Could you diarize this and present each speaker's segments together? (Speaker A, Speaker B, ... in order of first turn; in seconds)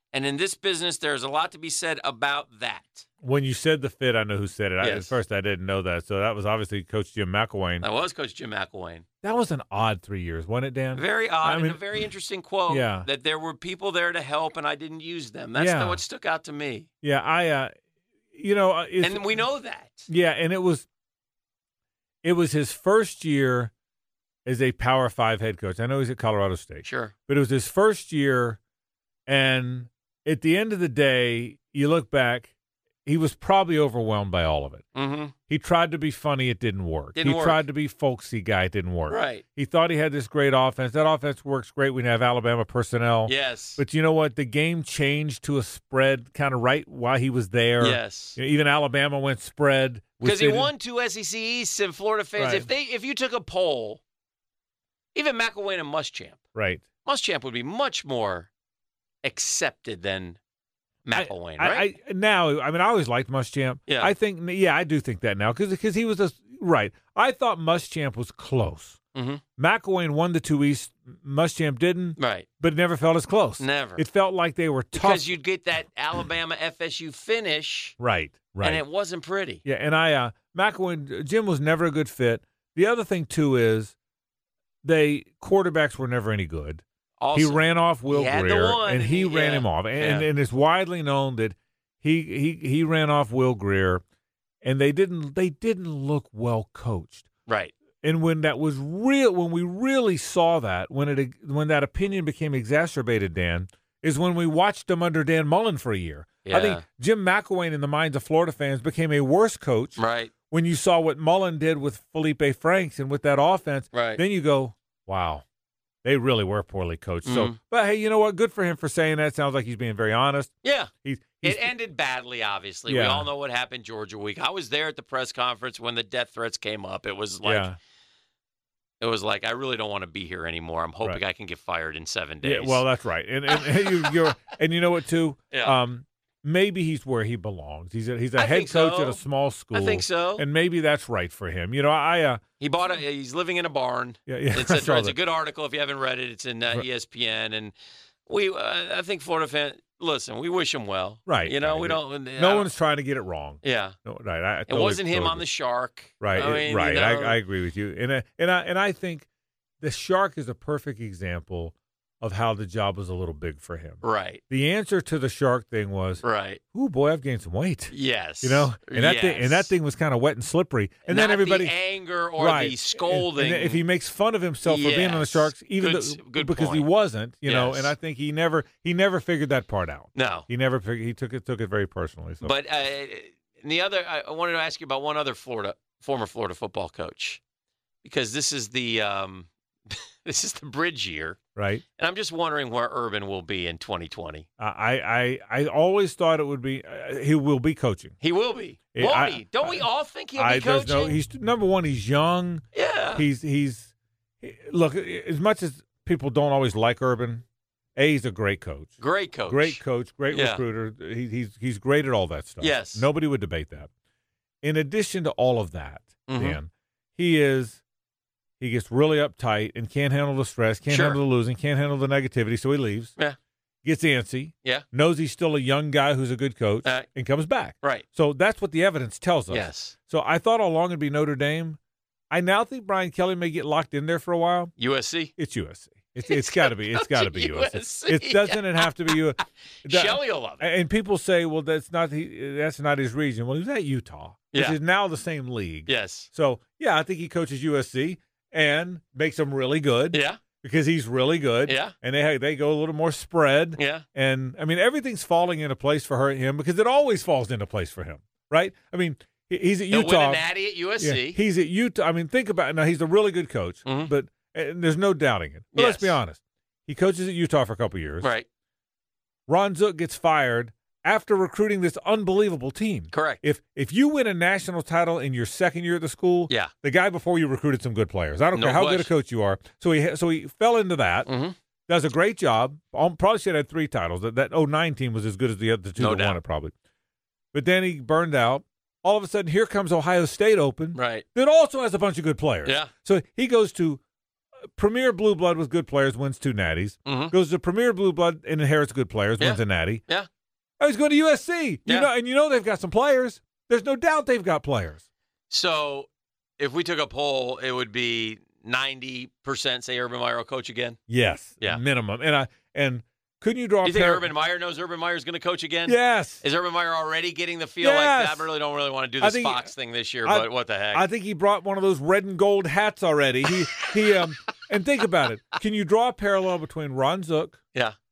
Speaker A: 0.1-3.1, 4.8-5.2, 7.8-9.1, 10.9-16.9, 19.0-20.1, 26.8-27.1, 35.0-35.3, 37.1-37.6, 39.1-39.4, 43.3-43.8, 47.8-48.4, 50.2-54.0, 55.1-56.4, 57.0-58.5, 59.2-60.4, 61.1-61.9, 63.9-64.1, 69.1-69.4, 72.2-72.5, 73.6-74.0, 74.9-78.0, 78.6-79.6, 87.2-90.3, 97.5-97.7, 106.5-106.8, 110.0-110.3, 113.9-114.2, 117.2-117.6, 120.6-120.9, 121.4-127.7, 129.0-132.8, 133.5-134.3, 138.4-139.2, 139.7-140.4, 142.6-147.8, 148.3-152.7, 153.6-154.0, 154.7-157.4, 164.0-164.4, 166.2-166.6, 167.9-169.7, 171.1-173.8, 174.6-176.9, 177.4-177.9, 180.2-180.5, 182.4-187.4, 188.0-191.4, 192.0-194.5, 198.2-201.2, 202.7-203.3, 209.0-210.6, 212.6-213.1, 216.3-216.6, 220.9-221.2, 229.5-229.9, 234.8-235.3, 236.3-240.7, 244.5-244.8, 245.9-246.3, 250.1-250.4, 251.7-251.9, 253.8-254.1, 259.9-261.4, 263.9-264.1, 265.7-266.2, 268.2-268.5, 273.1-273.4, 278.5-279.1, 281.3-281.6, 286.0-286.4, 290.9-291.2, 292.6-292.9, 297.1-297.3, 299.4-300.3, 305.5-306.1, 306.6-311.0, 313.8-321.1
Speaker B: 3.2-7.9, 9.2-12.0, 12.7-13.1, 15.6-16.0, 17.0-17.7, 18.3-19.4, 20.1-20.9, 22.2-23.7, 24.5-28.6, 29.3-32.5, 33.0-34.8, 35.5-50.7, 52.4-52.7, 56.5-56.8, 61.1-69.0, 69.6-75.3, 78.0-78.8, 79.7-83.9, 84.8-94.0, 94.6-97.3, 98.0-115.4, 116.0-120.5, 121.0-121.7, 122.9-123.3, 127.4-127.8, 132.4-142.4, 144.3-145.2, 151.3-155.5, 156.2-159.3, 159.8-171.7, 172.4-182.6, 191.6-191.8, 194.6-198.2, 198.9-202.6, 203.2-207.4, 208.0-208.9, 209.5-213.9, 214.6-217.8, 218.6-223.1, 223.8-231.8, 232.3-234.7, 235.4-260.5, 261.0-268.3, 269.5-281.3, 281.9-286.7, 287.5-294.0, 294.8-300.0, 300.8-305.0, 311.1-314.3, 315.9-316.4, 317.8-318.5, 319.2-319.7, 320.2-327.6